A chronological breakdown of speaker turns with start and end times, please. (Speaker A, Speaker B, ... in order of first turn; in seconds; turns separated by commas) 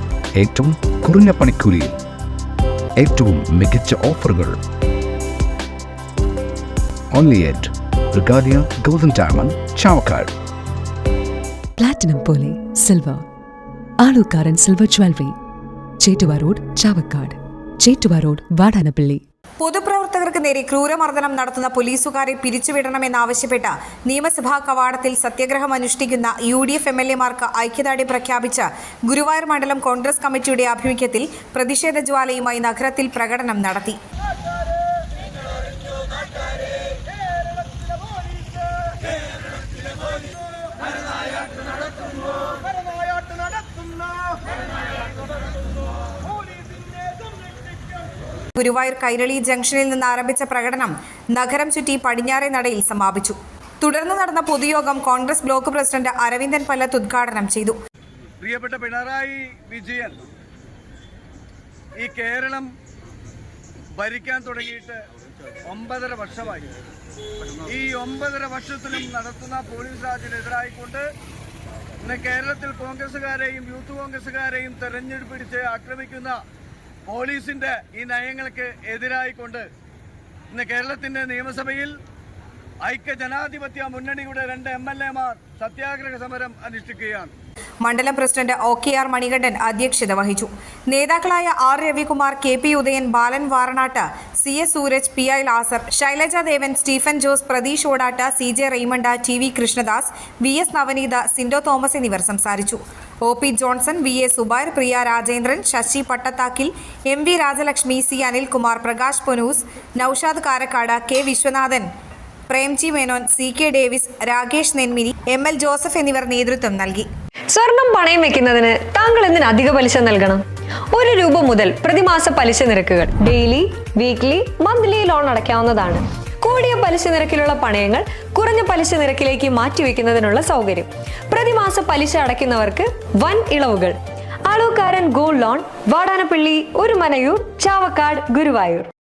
Speaker A: 0.3-2.0, Speaker A: 3.0-4.6, Speaker A: 7.1-10.3, Speaker B: 11.8-13.2, Speaker B: 14.0-15.4, Speaker B: 16.0-19.2, Speaker C: 19.6-34.0, Speaker C: 48.5-57.8, Speaker D: 58.4-60.2, Speaker D: 62.0-62.7, Speaker D: 64.0-65.0, Speaker D: 65.7-66.7, Speaker D: 67.6-71.1, Speaker D: 72.0-76.4, Speaker D: 77.1-79.7, Speaker D: 80.5-81.9, Speaker D: 82.8-87.3, Speaker C: 87.8-111.9, Speaker C: 112.5-117.1, Speaker E: 117.5-120.4, Speaker E: 120.9-138.9